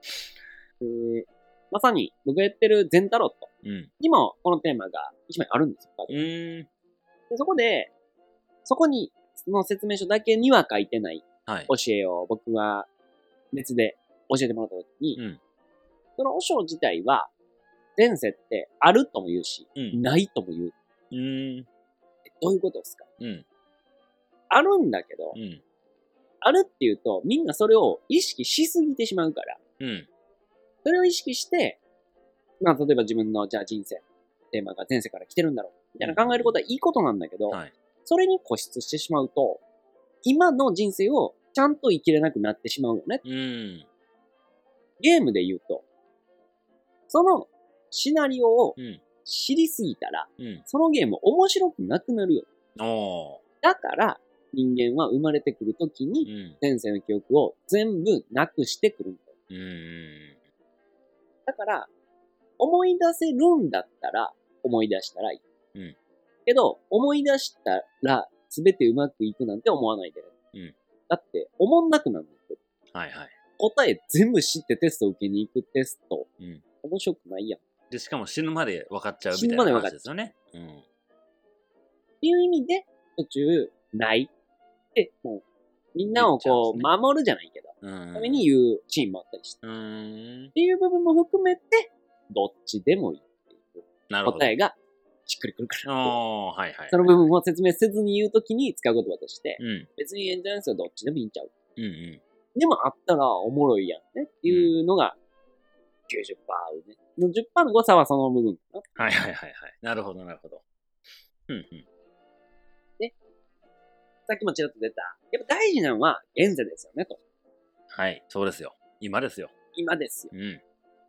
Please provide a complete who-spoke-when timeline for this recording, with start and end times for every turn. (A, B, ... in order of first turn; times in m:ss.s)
0:00.8-0:06.2 A
0:03.6-0:03.9 B
0:06.1-0:06.7 B
0:07.3-0:07.9 A
0:08.6-0:12.9 A
0:13.5-0:15.2 A
0:16.2-0:17.3 A
0:18.0-0:20.8 A
0:21.1-0:21.7 B
0:22.3-0:23.1 A
0:23.2-0:23.4 B
0:24.5-0:25.4 A
0:25.3-0:25.6 B
0:26.4-0:29.6 A
0:29.8-0:30.1 B
0:30.8-0:31.8 A
0:32.6-0:39.6 A
0:36.0-0:36.6 B
0:40.2-0:43.2 A
0:43.2-0:43.9 B
0:45.0-0:45.8 A
0:47.1-0:52.5 A
0:48.8-0:49.0 B
0:50.4-0:50.6 B
0:52.8-0:53.4 B
0:53.6-0:59.4 A
0:56.2-0:56.6 B
0:59.5-1:00.4 B
1:01.5-1:01.9 A
1:02.6-1:05.4 A
1:06.5-1:10.3 A
1:11.1-1:12.6 A
1:12.9-1:13.4 B
1:13.6-1:16.3 A
1:16.8-1:17.6 A
1:17.9-1:20.8 B
1:19.3-1:20.0 A
1:22.2-1:24.3 A
1:25.0-1:29.6 A
1:26.1-1:26.9 B
1:27.8-1:28.5 B
1:29.6-1:30.5 B
1:30.6-1:36.2 A
1:34.1-1:34.5 B
1:35.8-1:37.3 B
1:36.9-1:41.5 A
1:39.6-1:39.9 B
1:41.8-1:42.2 B
1:42.6-1:45.2 A
1:44.5-1:44.7 B
1:46.1-1:48.8 A
1:49.0-1:50.6 B
1:51.5-1:51.8 B
1:54.3-1:57.2 A
1:57.9-1:59.5 B
1:59.8-2:00.3 A
2:00.3-2:00.6 B